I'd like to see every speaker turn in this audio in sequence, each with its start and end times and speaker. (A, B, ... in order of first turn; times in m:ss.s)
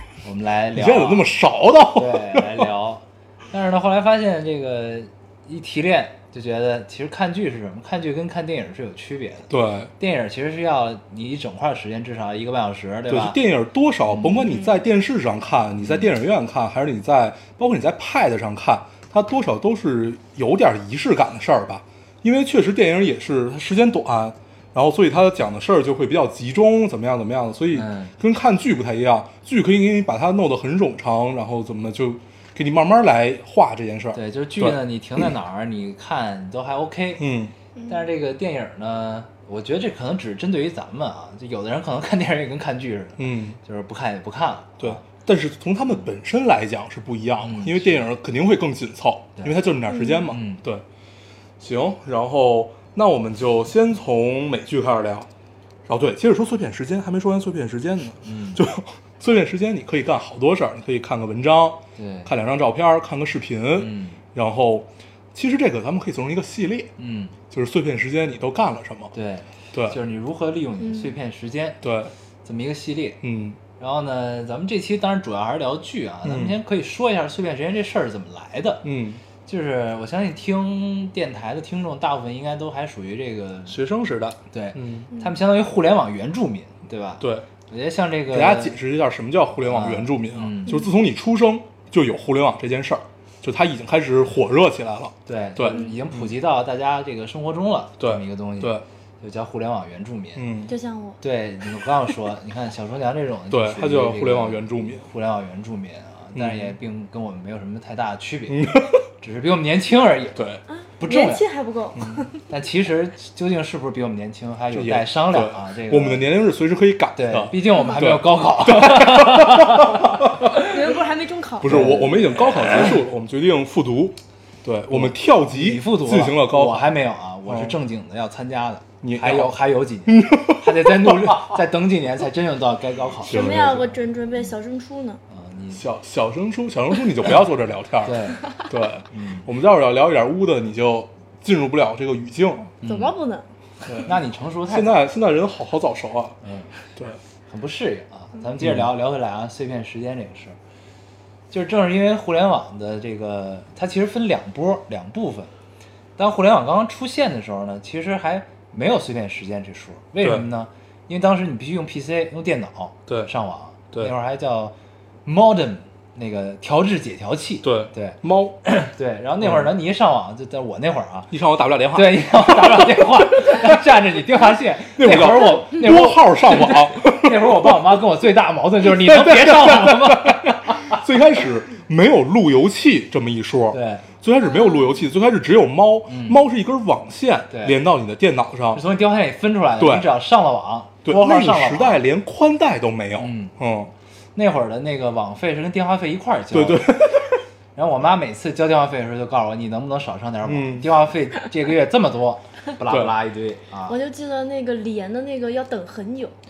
0:00.2-0:01.3 A
0:00.7-0:02.7 B
0:01.9-0:13.4 A
0:09.5-0:09.9 B
0:13.1-0:34.8 B
0:14.1-0:14.5 A
0:15.8-0:16.1 A
0:27.7-0:28.1 A
0:34.1-0:37.2 A
0:37.2-0:37.5 B
0:37.9-0:45.0 A
0:43.2-0:43.6 B
0:44.8-0:50.8 B
0:47.4-0:48.1 A
0:50.3-0:50.6 A
0:51.6-0:55.3 B
0:55.9-1:06.9 B
0:58.2-0:58.6 A
1:02.0-1:02.3 A
1:03.8-1:04.2 A
1:07.0-1:07.3 A
1:07.5-1:09.1 B
1:09.1-1:11.8 A
1:11.8-1:12.1 B
1:12.4-1:13.2 A
1:13.2-1:13.6 B
1:13.8-1:18.8 A
1:16.2-1:16.6 B
1:18.8-1:19.2 B
1:19.4-1:23.8 A
1:23.7-1:25.1 B
1:24.5-1:28.8 A
1:27.2-1:27.4 B
1:28.3-1:36.2 B
1:29.6-1:30.8 A
1:35.2-1:40.4 A
1:38.0-1:38.8 B
1:40.4-1:40.7 B
1:40.7-1:41.2 C
1:41.2-1:50.4 A
1:43.5-1:45.0 B
1:46.3-1:46.7 B
1:48.5-1:49.0 B
1:50.3-1:50.6 B
1:50.7-1:52.4 C
1:51.0-1:51.4 A
1:52.0-1:52.2 B
1:52.5-1:56.2 A
1:54.7-2:00.6 B
1:57.2-2:00.8 A
2:00.6-2:01.8 C
2:01.6-2:06.9 B
2:01.6-2:03.0 A
2:04.9-2:13.5 A
2:07.5-2:07.7 B
2:09.0-2:09.6 B
2:10.1-2:11.5 B
2:13.2-2:14.0 B
2:13.2-2:15.2 C
2:15.3-2:15.8 A
2:15.7-2:22.7 B
2:18.0-2:18.5 A
2:19.1-2:19.5 A
2:22.8-2:23.1 A
2:22.8-2:23.4 C
2:23.9-2:24.2 B
2:24.0-2:25.0 A
2:24.7-2:26.4 B
2:26.4-2:26.7 A
2:27.5-2:30.6 A
2:28.6-2:28.8 B
2:31.5-2:35.5 A
2:36.2-2:44.7 A
2:45.2-2:51.3 A
2:47.6-2:48.6 B
2:49.4-2:49.7 B
2:51.3-2:53.5 B
2:51.9-3:01.0 A
2:55.0-2:57.8 B
2:58.8-3:08.8 B
3:03.7-3:04.1 A
3:04.6-3:04.9 C
3:06.1-3:06.4 A
3:07.5-3:07.7 A
3:08.7-3:12.0 A
3:09.8-3:10.1 B
3:11.0-3:13.9 B
3:13.2-3:13.5 A
3:14.4-3:17.0 A
3:16.5-3:17.4 B
3:17.7-3:24.0 A
3:20.4-3:20.9 B
3:23.9-3:26.3 C